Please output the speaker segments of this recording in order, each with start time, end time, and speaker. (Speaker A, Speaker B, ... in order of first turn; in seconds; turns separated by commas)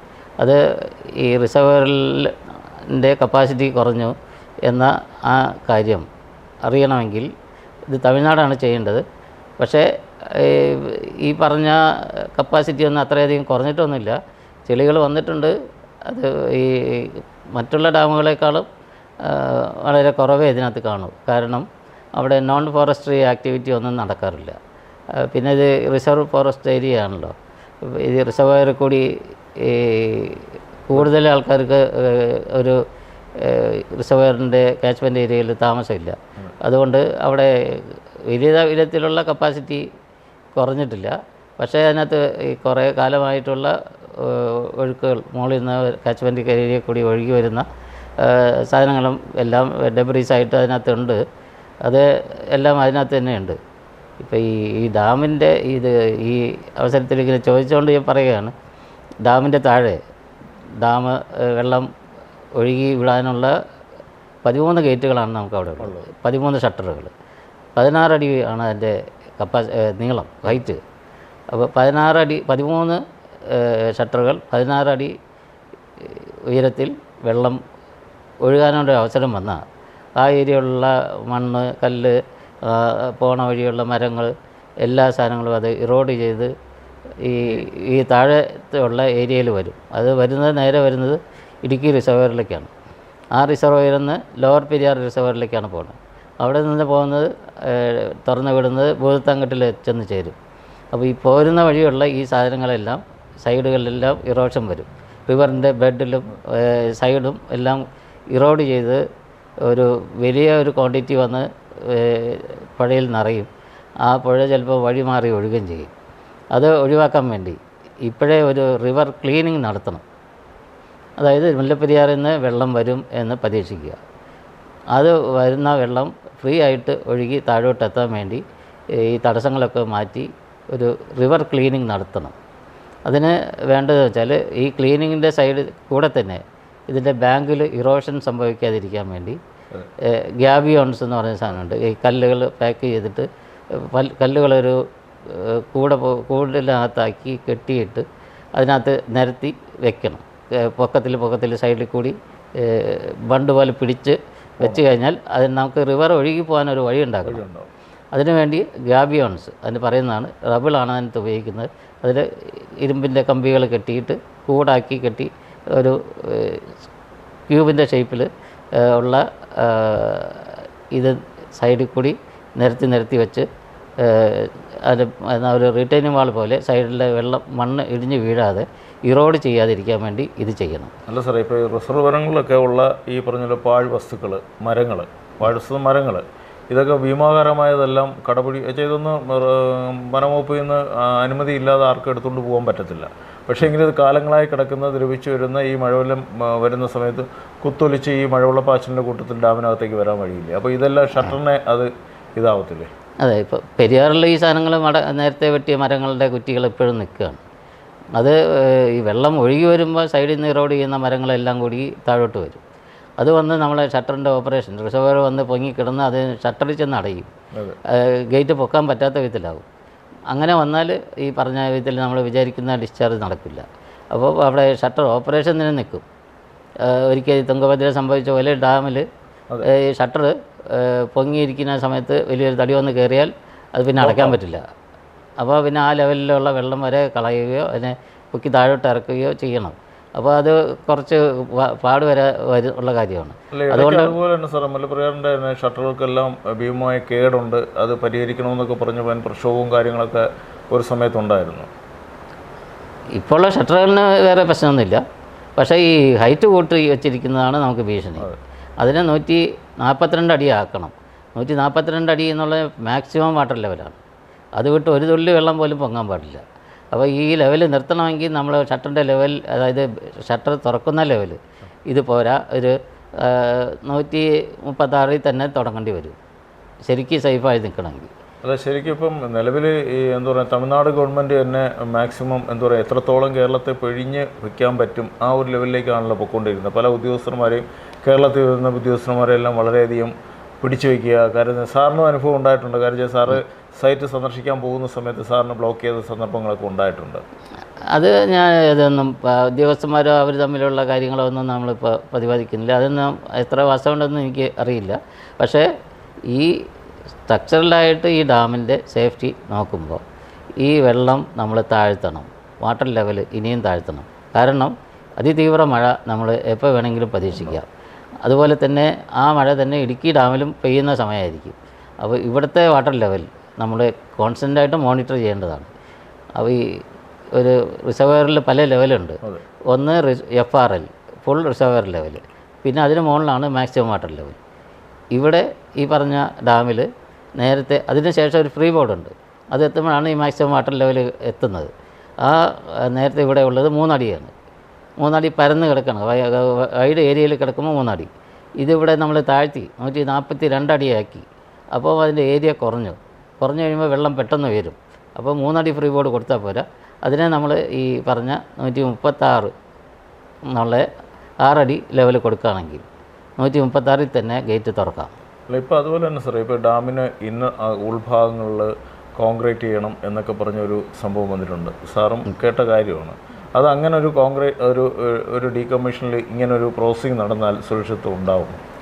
Speaker A: 0.4-2.4, Speaker A: 2.9-6.0, Speaker A: 6.7-7.3, Speaker A: 7.9-9.0, Speaker A: 9.6-15.5, Speaker A: 16.1-18.7, Speaker A: 19.2-24.6, Speaker A: 25.1-32.8, Speaker A: 33.4-39.8, Speaker A: 40.5-47.6, Speaker A: 48.2-51.2, Speaker A: 51.8-53.6, Speaker A: 54.2-58.5, Speaker A: 59.2-60.0, Speaker A: 60.8-61.9, Speaker A: 62.6-63.5, Speaker A: 64.4-67.1, Speaker B: 65.8-66.1, Speaker A: 67.8-70.8, Speaker A: 71.5-75.1, Speaker A: 76.0-77.6, Speaker A: 78.4-79.6, Speaker A: 80.2-86.5, Speaker A: 87.2-92.7, Speaker A: 93.3-100.3, Speaker A: 100.9-109.0, Speaker A: 109.6-113.5, Speaker A: 114.0-115.9, Speaker A: 116.5-120.0, Speaker A: 121.2-124.0, Speaker A: 124.9-132.3, Speaker A: 133.1-139.4, Speaker A: 140.0-148.0, Speaker A: 148.6-157.4, Speaker B: 157.2-157.7, Speaker A: 158.1-166.8, Speaker A: 167.5-173.5, Speaker A: 174.0-180.9, Speaker B: 181.1-202.9, Speaker A: 203.2-207.4, Speaker A: 208.2-212.6, Speaker A: 213.2-217.3, Speaker B: 217.5-217.8, Speaker A: 217.9-219.7, Speaker A: 220.3-226.0, Speaker A: 226.8-229.1, Speaker A: 229.6-234.6, Speaker B: 234.0-234.4, Speaker A: 235.4-244.2, Speaker B: 243.5-251.7, Speaker A: 253.1-255.0, Speaker A: 255.6-258.3, Speaker A: 258.8-264.0, Speaker A: 264.6-271.4, Speaker A: 271.9-276.2, Speaker A: 276.9-278.1, Speaker B: 278.4-297.2, Speaker A: 297.9-305.7, Speaker A: 306.3-306.6, Speaker A: 307.3-310.0, Speaker A: 310.6-317.7, Speaker A: 318.2-325.7, Speaker A: 326.4-326.8, Speaker A: 327.3-334.4, Speaker A: 335.1-341.7, Speaker A: 342.2-344.3, Speaker A: 345.0-359.5, Speaker A: 360.5-360.9, Speaker A: 361.4-362.9, Speaker A: 363.4-365.1, Speaker B: 365.5-378.6